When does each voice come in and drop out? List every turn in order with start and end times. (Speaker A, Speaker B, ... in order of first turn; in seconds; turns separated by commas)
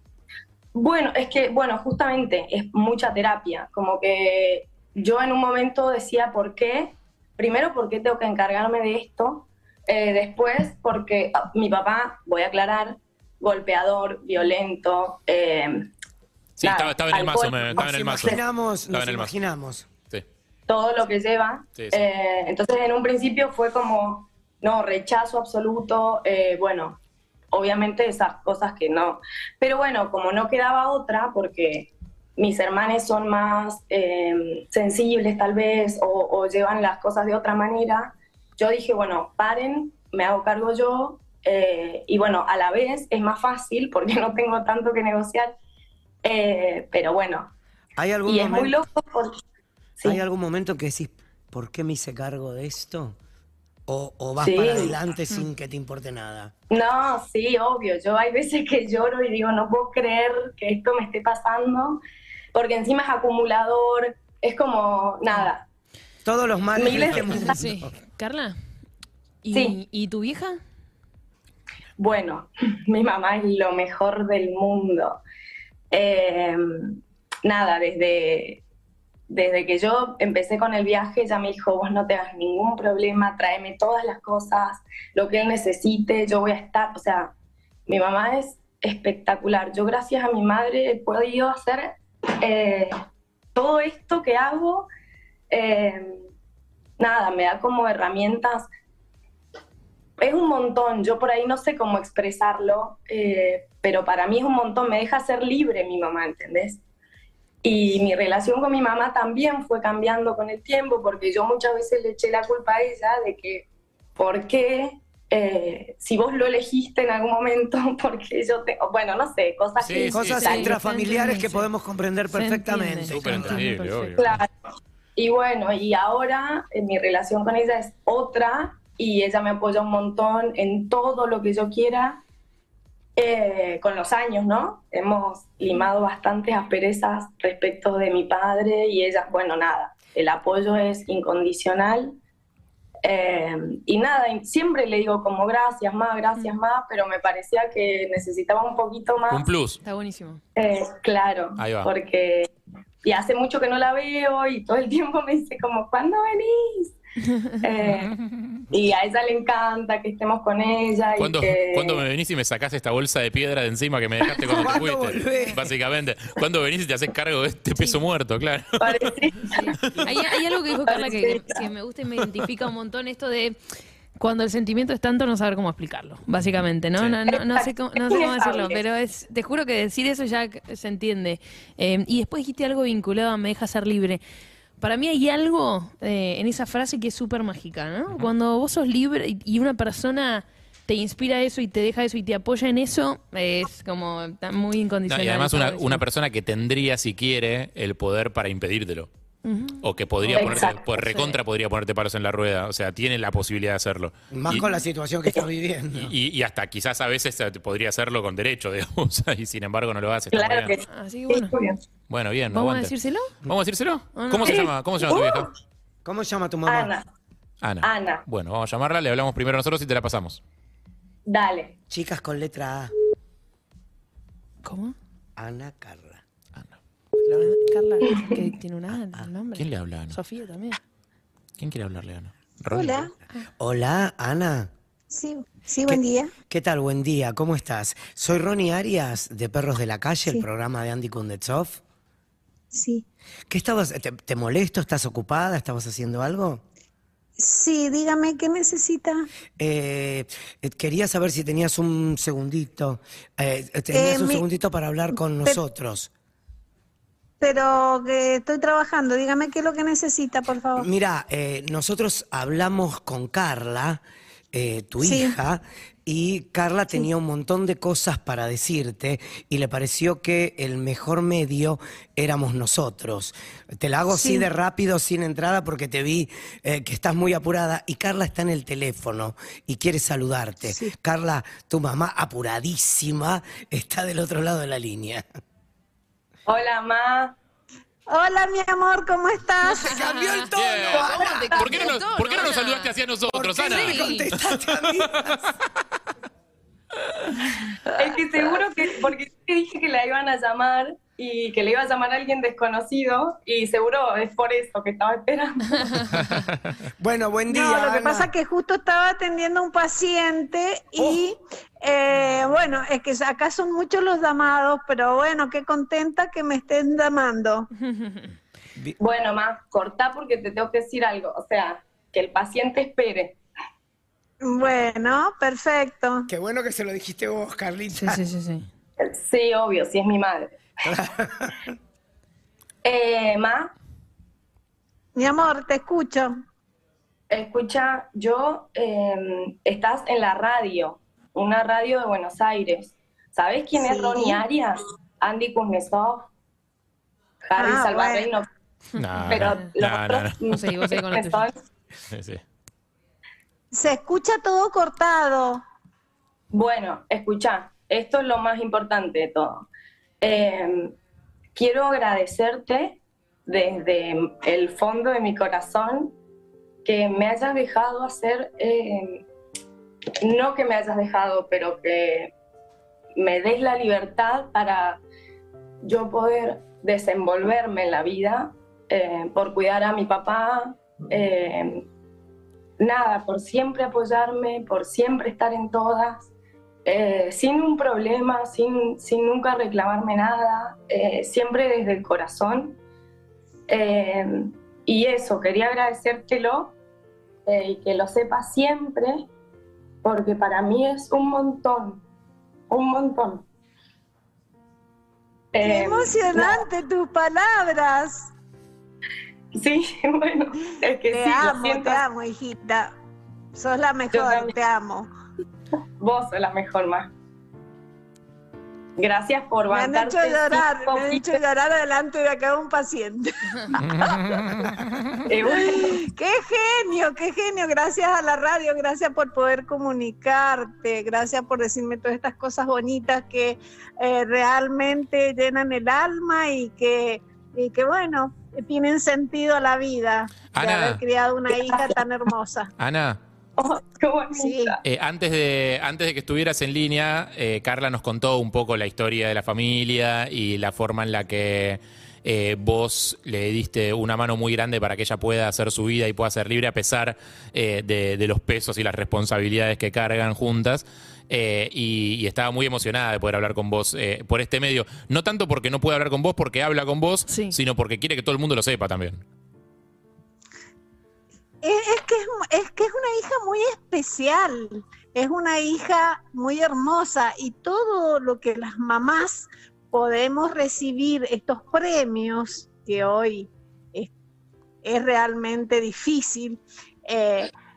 Speaker A: 0.7-15.9, Speaker B: 16.6-19.4, Speaker A: 16.6-18.4, Speaker C: 17.7-19.9, Speaker A: 20.7-27.0, Speaker B: 21.8-22.0, Speaker A: 27.5-45.5, Speaker A: 46.2-47.5, Speaker C: 48.0-48.8, Speaker A: 48.2-49.4, Speaker C: 50.0-53.1, Speaker C: 53.9-56.5, Speaker A: 54.4-55.0, Speaker A: 56.7-62.0, Speaker A: 62.5-65.6, Speaker C: 66.2-67.8, Speaker A: 66.7-67.6, Speaker D: 67.2-68.6, Speaker D: 69.4-70.6, Speaker A: 69.5-69.8, Speaker A: 72.0-75.2, Speaker A: 75.9-78.6, Speaker A: 79.3-87.3, Speaker A: 87.9-93.0, Speaker A: 93.5-94.9, Speaker A: 95.5-96.2, Speaker A: 97.0-98.7, Speaker A: 100.2-106.8, Speaker A: 107.6-113.7, Speaker A: 114.2-120.8, Speaker B: 119.8-120.6, Speaker D: 119.9-121.7, Speaker C: 120.1-123.7, Speaker D: 122.3-124.2, Speaker B: 123.1-124.4, Speaker A: 124.2-124.5, Speaker A: 125.2-132.2, Speaker A: 133.2-142.2, Speaker A: 143.0-149.5, Speaker B: 149.3-149.8, Speaker D: 149.8-150.4, Speaker A: 150.6-152.5, Speaker B: 151.6-151.9, Speaker A: 153.0-157.0, Speaker A: 157.6-158.2, Speaker B: 158.3-158.6, Speaker A: 158.7-162.0, Speaker B: 161.2-169.0, Speaker C: 164.5-165.6, Speaker A: 168.8-169.9, Speaker D: 169.5-173.6, Speaker A: 170.8-171.7, Speaker D: 174.2-184.2, Speaker B: 176.4-177.2, Speaker A: 177.3-178.8, Speaker D: 184.8-196.0, Speaker B: 195.1-199.1, Speaker D: 199.4-201.3, Speaker B: 199.8-204.6, Speaker A: 200.3-200.8, Speaker C: 204.3-206.1, Speaker B: 205.9-210.7, Speaker A: 210.3-211.8, Speaker D: 210.9-211.5, Speaker B: 212.1-212.9, Speaker D: 212.5-213.3, Speaker B: 213.4-215.5, Speaker D: 214.1-214.7, Speaker A: 214.4-215.5, Speaker C: 216.0-216.9, Speaker A: 216.7-217.0, Speaker B: 217.6-220.4, Speaker A: 217.8-218.2, Speaker A: 221.2-221.8, Speaker C: 221.9-222.9, Speaker D: 224.6-224.9, Speaker C: 225.4-226.2, Speaker D: 227.3-230.8, Speaker A: 228.0-228.4, Speaker C: 228.9-229.3, Speaker B: 229.6-230.2, Speaker B: 231.6-233.1, Speaker E: 232.7-233.1, Speaker C: 233.6-234.7, Speaker E: 235.1-236.3, Speaker C: 235.9-241.8, Speaker E: 242.7-243.0, Speaker C: 243.5-246.6, Speaker E: 247.4-249.3, Speaker C: 249.6-256.1, Speaker E: 253.9-254.4, Speaker E: 257.4-260.9, Speaker C: 260.8-264.0, Speaker C: 264.5-285.2, Speaker E: 265.0-265.4, Speaker E: 274.1-274.5, Speaker E: 280.6-280.9, Speaker A: 286.4-287.3, Speaker E: 288.1-290.0, Speaker D: 289.8-292.9, Speaker C: 289.8-291.5, Speaker B: 290.5-295.5, Speaker A: 291.2-291.8, Speaker C: 293.3-295.4, Speaker D: 293.6-294.3, Speaker A: 297.9-306.1, Speaker D: 305.8-306.2, Speaker C: 307.0-308.3, Speaker E: 307.5-317.7, Speaker D: 317.8-318.3, Speaker A: 319.0-323.4, Speaker E: 324.4-326.3, Speaker C: 326.3-328.2, Speaker D: 327.9-328.6, Speaker A: 329.0-330.6, Speaker C: 330.8-331.6, Speaker A: 332.8-333.7, Speaker E: 335.1-336.3, Speaker A: 337.3-346.3, Speaker E: 343.8-344.4, Speaker A: 347.5-348.5, Speaker E: 347.6-348.3, Speaker D: 349.0-349.7, Speaker B: 349.0-350.9, Speaker A: 349.3-351.5, Speaker D: 350.5-351.5, Speaker B: 352.1-352.4, Speaker E: 353.7-355.6, Speaker A: 356.5-359.7, Speaker A: 360.2-360.9, Speaker A: 361.6-366.1, Speaker A: 366.8-369.2, Speaker A: 370.2-372.3, Speaker A: 373.1-375.0, Speaker A: 375.8-381.9, Speaker A: 382.8-386.3, Speaker A: 386.8-392.8, Speaker A: 393.7-396.7, Speaker A: 397.4-399.2, Speaker A: 400.0-402.0, Speaker A: 402.7-403.4, Speaker A: 405.5-406.6, Speaker E: 405.6-408.3, Speaker A: 409.5-412.0, Speaker E: 411.1-412.9, Speaker E: 413.5-415.1, Speaker A: 414.1-414.5, Speaker A: 416.0-417.1, Speaker A: 419.0-421.4, Speaker E: 419.7-424.5, Speaker B: 423.8-425.3, Speaker A: 425.3-426.0, Speaker E: 425.4-442.7, Speaker B: 440.5-441.0, Speaker A: 441.5-442.0, Speaker B: 442.8-443.2, Speaker A: 443.6-444.8, Speaker E: 444.3-444.7, Speaker B: 444.8-469.2, Speaker D: 467.3-467.6, Speaker E: 471.6-484.1, Speaker E: 484.8-487.5